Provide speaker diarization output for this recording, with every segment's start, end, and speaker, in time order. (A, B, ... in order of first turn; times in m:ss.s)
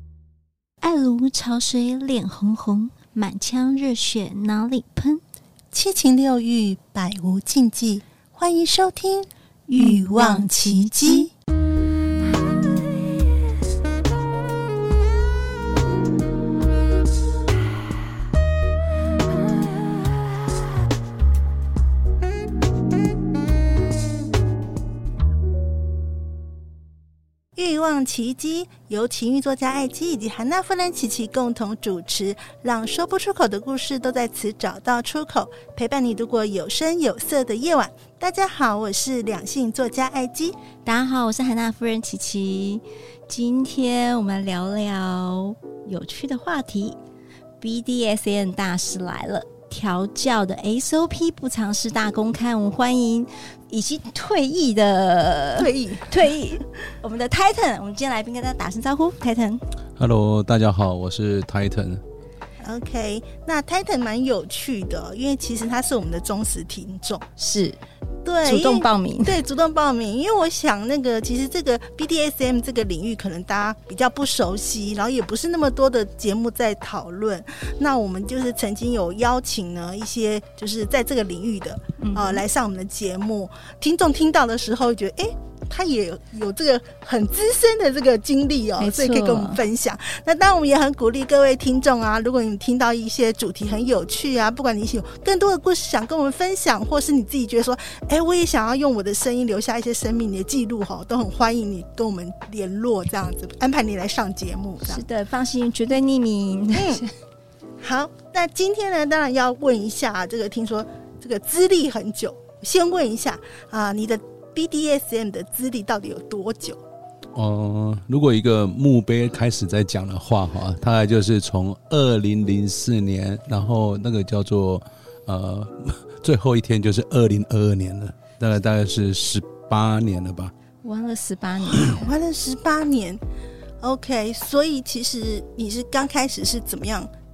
0:00.8-0:05.2 A
0:05.7-0:11.3 B
0:09.8-0:11.2 A
0:27.6-0:40.6 B
0:40.8-0:47.0 A
0:47.6-0:59.6 A
0:55.6-0:56.2 B
1:00.0-1:02.0 C
1:02.6-1:07.2 B
1:07.4-1:07.8 A
1:08.2-1:45.0 B
1:08.4-1:09.4 A
1:22.0-1:22.4 A
1:28.8-1:29.6 A
1:44.8-1:47.1 A
1:46.7-1:47.0 B
1:47.8-1:56.8 B
1:57.3-2:10.5 C
2:10.8-2:12.1 A
2:11.6-2:13.2 B
2:13.8-2:17.1 B